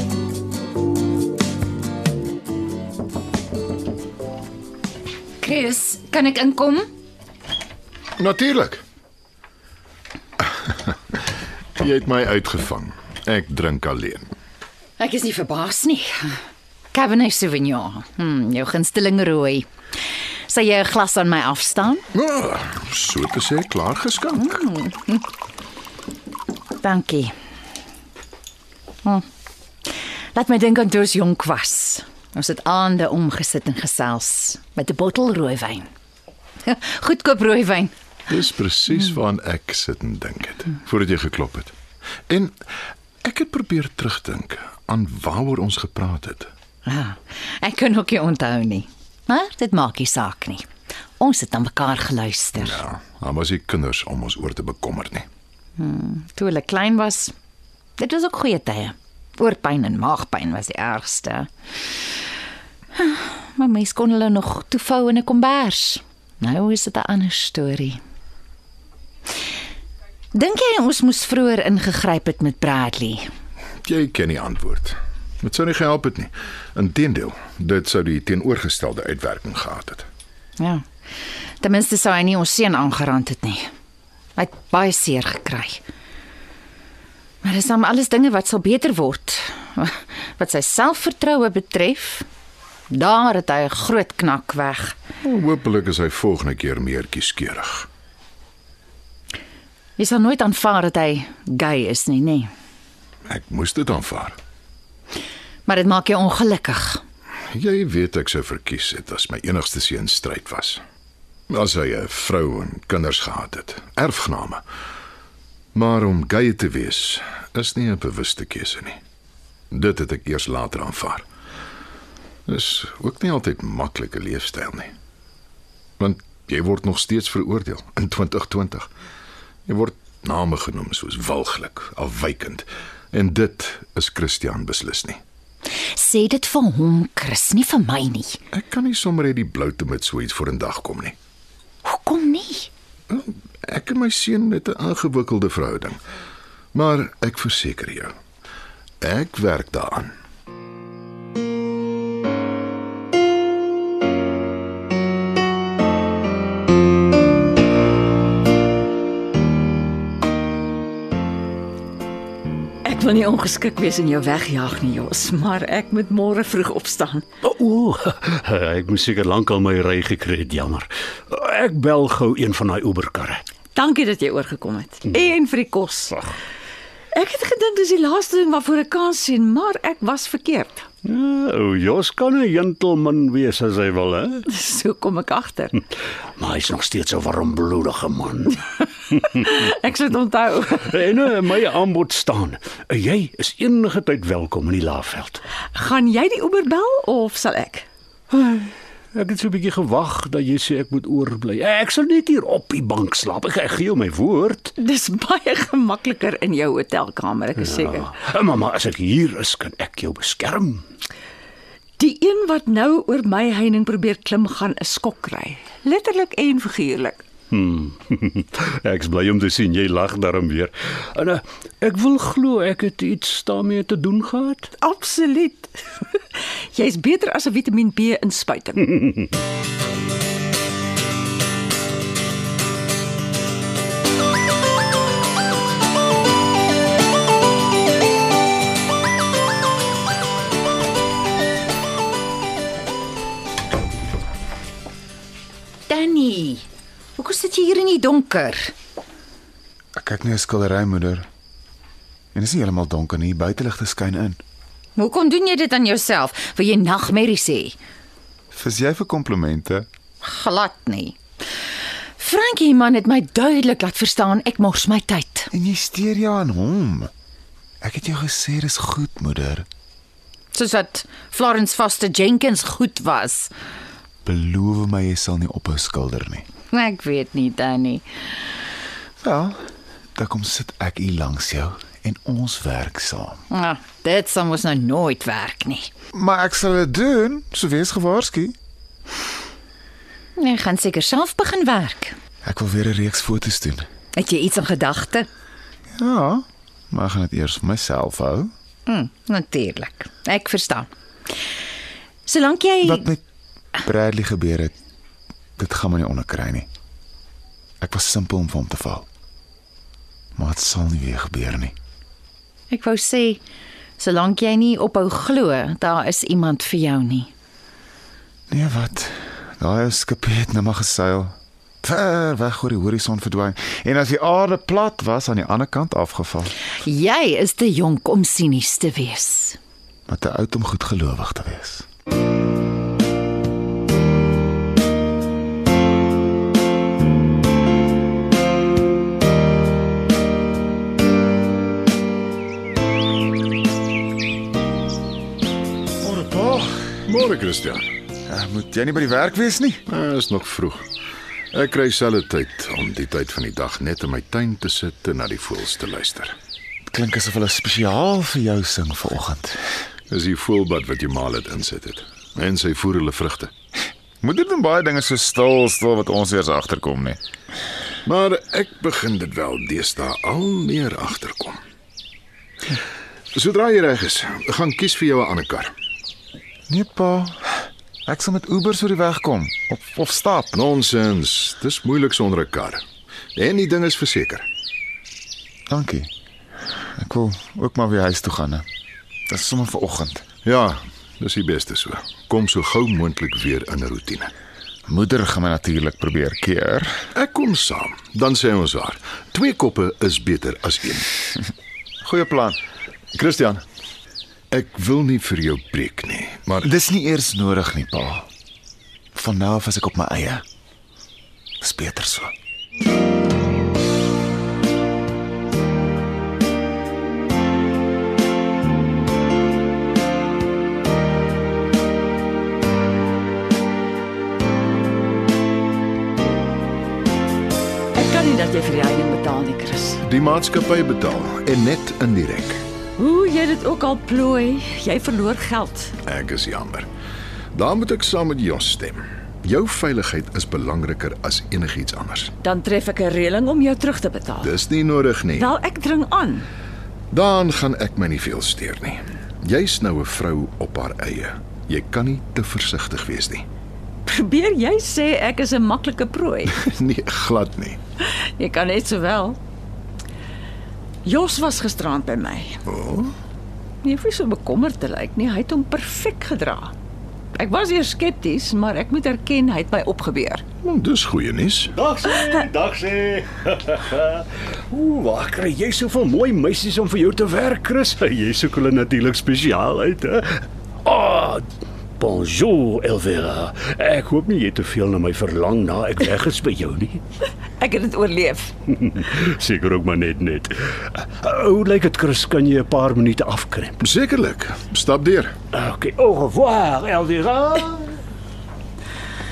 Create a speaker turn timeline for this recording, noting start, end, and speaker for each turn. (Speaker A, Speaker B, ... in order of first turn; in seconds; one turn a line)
Speaker A: 5.4-6.8
Speaker B: 8.2-8.8
Speaker B: 11.8-14.3
Speaker A: 15.0-16.3
Speaker A: 16.9-19.6
Speaker A: 20.5-22.0
Speaker B: 22.1-24.6
Speaker A: 24.4-25.2
Speaker A: 26.8-27.3
Speaker A: 30.3-35.9
Speaker A: 36.6-37.9
Speaker B: 38.3-41.7
Speaker B: 42.3-42.5
Speaker B: 43.2-46.5
Speaker A: 46.9-50.6
Speaker A: 51.2-52.8
Speaker B: 52.6-55.3
Speaker A: 55.8-57.3
Speaker A: 58.0-61.5
Speaker A: 62.9-68.0
Speaker A: 70.3-73.2
Speaker B: 73.8-80.1
Speaker A: 80.6-80.8
Speaker A: 81.6-83.6
Speaker A: 84.4-85.8
Speaker A: 87.4-92.2
Speaker A: 92.9-95.0
Speaker B: 95.2-97.9
Speaker A: 100.0-102.5
Speaker B: 103.3-104.4
Speaker A: 105.7-107.0
Speaker B: 107.5-110.8
Speaker B: 111.5-114.6
Speaker B: 115.7-119.0
Speaker B: 119.7-121.2
Speaker B: 122.5-124.9
Speaker B: 126.0-128.9
Speaker B: 129.7-135.2
Speaker A: 135.9-138.4
Speaker B: 138.5-141.2
Speaker A: 141.8-142.7
Speaker B: 143.1-146.0
Speaker B: 146.7-148.1
Speaker B: 149.0-150.1
Speaker C: 162.8-167.2
Speaker D: 167.7-173.4
Speaker C: 173.7-176.3
Speaker C: 177.1-180.8
Speaker D: 181.1-184.3
Speaker C: 184.5-185.8
Speaker D: 186.4-188.5
Speaker C: 189.1-191.0
Speaker D: 191.2-195.4
Speaker C: 195.7-197.8
Speaker D: 198.3-198.6
Speaker D: 199.2-204.6
Speaker C: 204.8-208.1
Speaker D: 207.7-210.8
Speaker C: 212.0-217.2
Speaker D: 217.5-224.6
Speaker C: 224.8-226.2
Speaker C: 226.7-229.0
Speaker A: 245.9-246.7
Speaker A: 247.2-248.7
Speaker E: 249.9-251.2
Speaker E: 252.3-254.4
Speaker A: 255.0-257.8
Speaker E: 258.5-259.9
Speaker A: 260.2-261.2
Speaker A: 262.2-265.5
Speaker E: 265.5-267.1
Speaker E: 267.8-269.6
Speaker A: 270.5-273.5
Speaker E: 274.2-276.4
Speaker A: 276.7-278.1
Speaker E: 279.2-279.6
Speaker E: 280.1-283.4
Speaker A: 283.5-285.9
Speaker E: 286.1-288.5
Speaker A: 290.4-292.1
Speaker E: 292.4-293.8
Speaker A: 294.1-295.2
Speaker E: 296.0-298.5
Speaker A: 298.9-300.9
Speaker A: 302.3-303.1
Speaker E: 302.8-303.2
Speaker E: 303.8-304.7
Speaker E: 305.6-306.7
Speaker E: 307.8-309.0
Speaker E: 310.4-311.7
Speaker A: 312.7-313.4
Speaker A: 314.0-317.3
Speaker E: 318.5-326.5
Speaker A: 326.8-329.6
Speaker E: 330.1-331.8
Speaker E: 346.0-347.0
Speaker B: 347.1-347.9
Speaker E: 348.3-349.8
Speaker B: 349.9-350.8
Speaker B: 351.5-356.4
Speaker E: 356.9-359.6
Speaker B: 360.1-363.5
Speaker E: 364.2-367.2
Speaker B: 368.0-371.6
Speaker B: 373.3-375.7
Speaker E: 376.7-380.5
Speaker B: 380.5-382.8
Speaker B: 383.3-384.4
Speaker E: 385.7-386.1
Speaker E: 386.9-388.6
Speaker E: 389.3-390.2
Speaker B: 390.4-394.3
Speaker E: 394.9-397.0
Speaker B: 397.1-401.1
Speaker E: 402.0-402.6
Speaker B: 403.1-403.6
Speaker B: 404.5-406.7
Speaker E: 406.6-408.3
Speaker E: 409.1-410.4
Speaker E: 411.6-412.3
Speaker C: 427.9-430.0
Speaker B: 430.0-432.6
Speaker C: 433.0-435.9
Speaker B: 436.0-436.9
Speaker B: 437.5-442.3
Speaker C: 442.4-444.5
Speaker B: 444.4-445.5
Speaker C: 445.3-446.5
Speaker B: 447.1-453.4
Speaker C: 454.1-456.5
Speaker B: 456.5-457.8
Speaker C: 458.0-459.4
Speaker C: 461.0-462.6
Speaker B: 462.6-463.1
Speaker C: 463.8-466.7
Speaker C: 467.4-470.4
Speaker B: 470.6-471.7
Speaker D: 471.8-480.2
Speaker D: 480.8-481.4
Speaker D: 482.0-487.0
Speaker C: 487.6-488.5
Speaker D: 489.0-493.7
Speaker B: 493.8-495.3
Speaker D: 495.5-497.8